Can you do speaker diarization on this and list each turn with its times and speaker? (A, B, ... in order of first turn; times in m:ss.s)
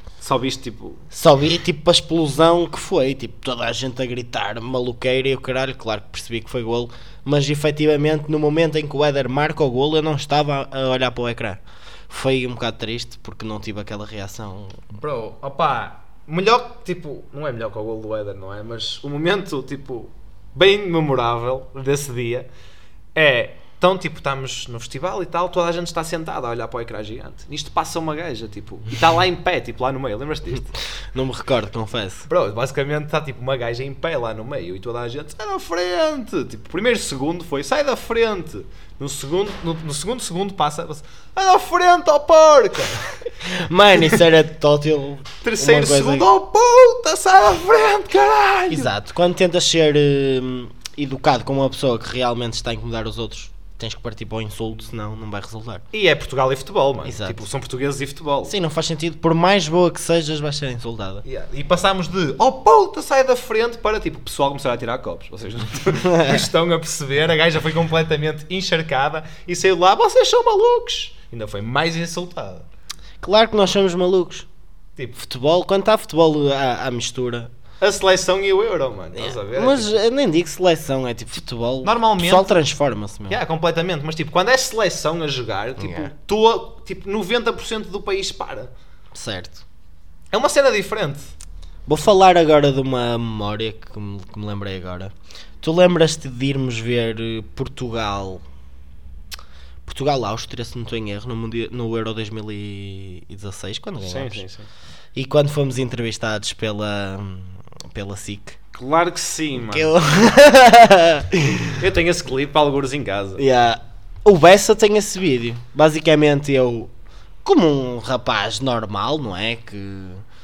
0:00.2-0:01.0 A
0:01.1-0:14.8 B
0:15.0-0:22.5 A
0:23.2-0:30.8 A
0:31.1-0:32.3 B
0:32.3-0:43.2 A
0:43.4-0:46.3 B
0:45.4-0:48.9 A
0:48.7-0:55.8 B
0:55.9-0:58.5 A
0:57.0-0:57.4 B
0:58.5-1:01.2 B
1:01.2-1:12.7 A
1:06.0-1:06.4 B
1:13.2-1:14.5 B
1:15.2-1:17.5 B
1:17.8-1:20.0 A
1:19.2-1:23.4 B
1:21.8-1:22.6 A
1:23.3-1:28.7 A
1:25.8-1:26.1 B
1:29.1-1:29.6 B
1:30.3-1:31.3 A
1:31.9-1:38.4 B
1:39.9-1:44.4 B
1:44.0-1:44.7 A
1:45.2-1:48.6 B
1:48.7-1:50.0 A
1:49.6-1:51.8 B
1:51.7-1:53.4 A
1:53.4-1:56.9 B
1:57.4-2:00.2 B